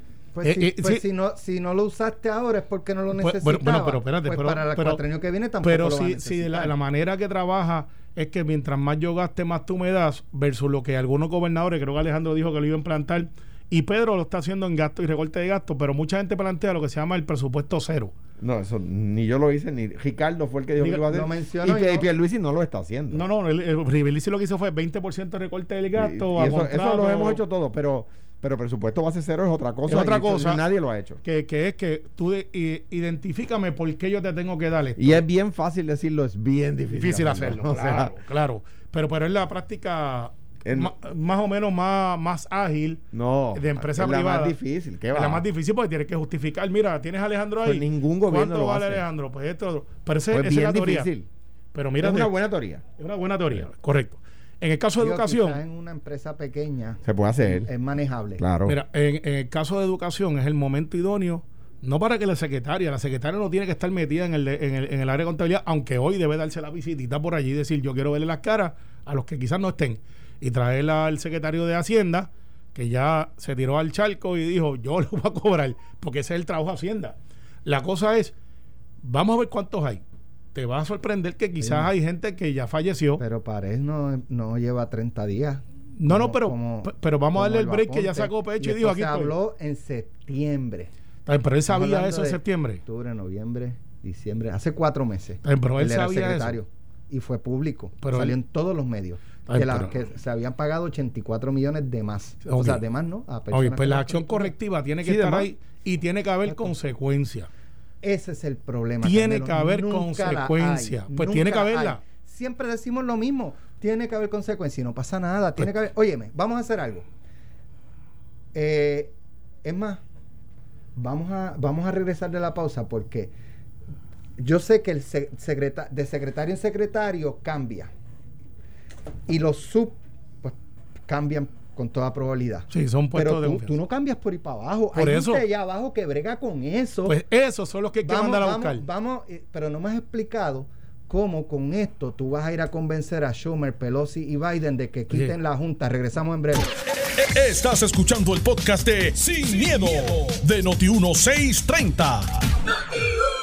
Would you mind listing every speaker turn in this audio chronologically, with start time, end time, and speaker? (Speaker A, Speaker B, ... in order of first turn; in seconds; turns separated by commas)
Speaker A: 0.3-6.7, Speaker B: 0.4-1.0, Speaker B: 3.2-5.0, Speaker B: 5.6-18.1, Speaker C: 18.4-23.3, Speaker B: 20.8-21.0, Speaker A: 21.1-22.1, Speaker B: 23.1-27.4, Speaker C: 25.9-31.2, Speaker B: 29.9-30.6, Speaker B: 31.2-35.2, Speaker C: 35.0-38.1, Speaker B: 37.0-44.5, Speaker C: 40.6-40.9, Speaker C: 43.1-45.5, Speaker B: 45.1-51.1, Speaker C: 47.6-49.0, Speaker C: 50.3-51.3, Speaker B: 51.7-52.3, Speaker C: 52.0-52.8, Speaker B: 53.0-55.6, Speaker A: 55.0-58.4, Speaker C: 57.0-57.7, Speaker C: 58.4-58.8, Speaker B: 58.6-78.3, Speaker B: 79.0-80.0, Speaker B: 80.5-83.2, Speaker A: 81.6-81.9, Speaker A: 83.2-90.9, Speaker B: 86.0-89.3, Speaker B: 91.2-92.8, Speaker A: 91.7-104.5, Speaker B: 95.4-96.6, Speaker B: 98.0-98.3, Speaker B: 99.5-99.9, Speaker B: 102.4-102.8, Speaker B: 103.5-107.5, Speaker C: 105.0-105.5, Speaker A: 108.0-117.0, Speaker B: 109.0-112.0, Speaker A: 118.5-119.1, Speaker A: 119.6-120.0, Speaker A: 121.0-123.3, Speaker A: 124.4-127.9, Speaker A: 129.3-130.6, Speaker A: 131.1-137.2, Speaker B: 132.7-133.7, Speaker B: 134.9-135.4, Speaker B: 137.1-138.8, Speaker A: 138.0-146.7, Speaker D: 147.0-152.4